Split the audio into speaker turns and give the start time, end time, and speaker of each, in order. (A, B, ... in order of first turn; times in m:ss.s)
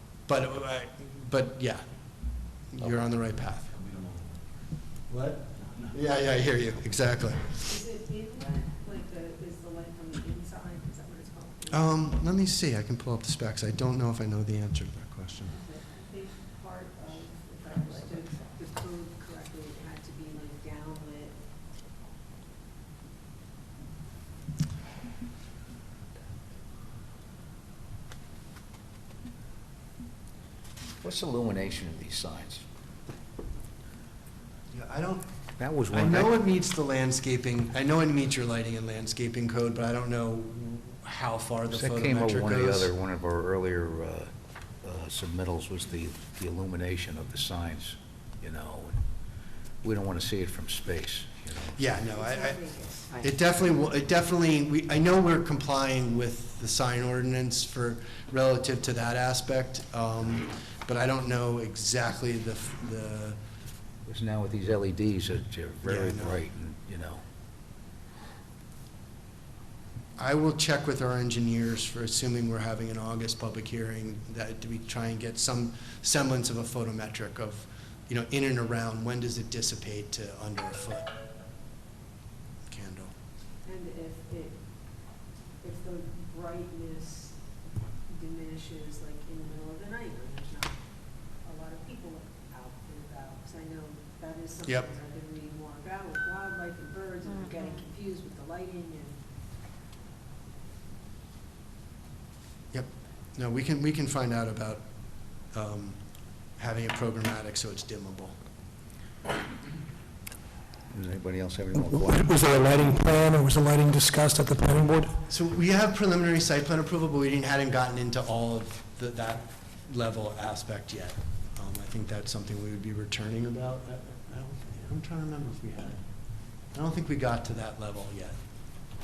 0:00.3-0:01.8 A
0:02.7-0:03.7 A
0:05.1-0:07.7 A
0:07.6-0:11.9 B
0:11.7-0:15.6 A
0:15.5-0:21.3 B
0:31.0-0:32.6 C
0:34.7-0:35.2 A
0:35.6-0:36.3 C
0:35.9-0:42.9 A
0:41.7-0:44.3 C
0:44.8-0:49.0 C
0:49.8-0:51.8 C
0:51.8-0:52.6 A
0:52.1-0:53.2 B
0:53.2-1:03.4 A
1:04.0-1:07.2 C
1:05.8-1:06.4 A
1:10.2-1:21.1 A
1:22.7-1:23.1 A
1:23.6-1:24.6 B
1:25.6-1:27.4 B
1:28.0-1:30.8 B
1:31.4-1:39.2 B
1:42.7-1:44.8 A
1:45.5-1:46.0 A
1:46.6-1:48.3 A
1:50.9-1:52.6 C
1:52.1-1:55.1 D
1:55.3-2:06.0 A
2:06.7-2:08.4 A